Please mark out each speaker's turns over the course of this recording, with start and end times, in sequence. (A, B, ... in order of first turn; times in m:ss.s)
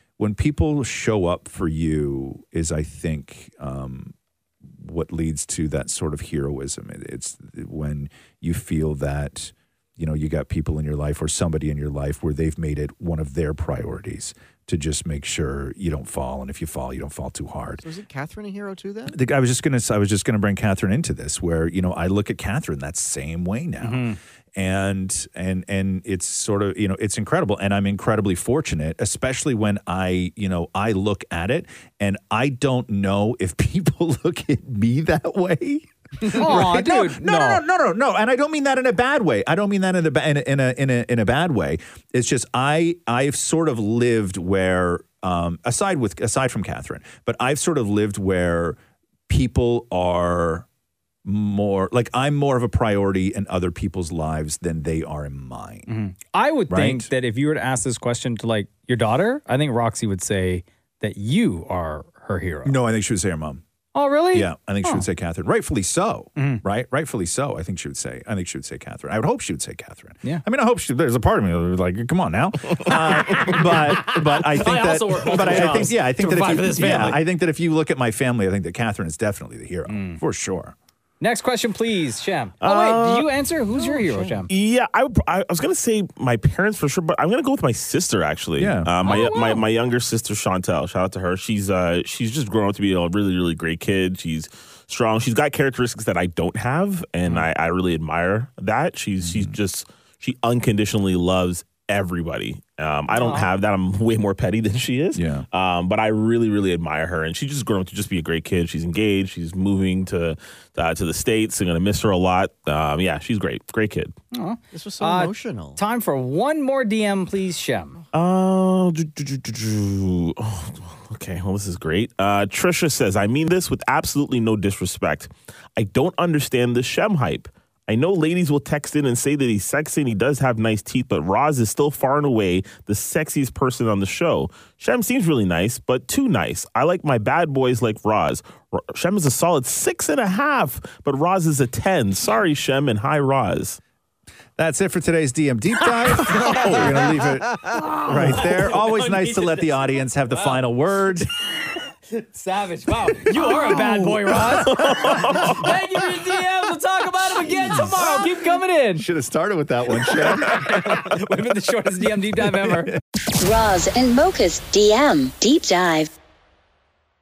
0:00.2-0:17.9 A
0:17.8-0:19.2 B
0:19.1-0:50.7 A
0:23.8-0:24.2 C
0:36.2-0:37.6 C
0:51.2-0:55.9 A
0:55.9-1:02.8 C
0:56.7-0:57.1 A
1:02.6-1:03.6 A
1:03.9-1:05.1 C
1:04.3-1:20.8 A
1:06.4-1:06.6 C
1:12.9-1:17.2 C
1:19.9-1:20.2 C
1:21.2-1:24.5 C
1:22.6-1:23.3 D
1:24.1-1:24.4 B
1:24.5-1:54.1 D
1:28.6-1:29.1 A
1:29.1-1:29.6 C
1:39.2-1:39.6 A
1:43.1-1:43.5 C
1:45.1-1:45.4 A
1:54.3-1:58.0 C
1:54.7-1:55.8 B
1:58.1-2:23.8 D
2:24.6-2:31.3 A
2:26.1-2:27.0 C
2:26.5-2:26.9 D
2:27.7-2:30.6 C
2:31.6-2:39.1 C
2:33.4-2:35.7 D
2:37.5-2:38.3 A
2:38.9-2:40.9 A
2:40.1-2:42.9 C
2:42.4-2:43.0 A
2:43.4-2:46.1 E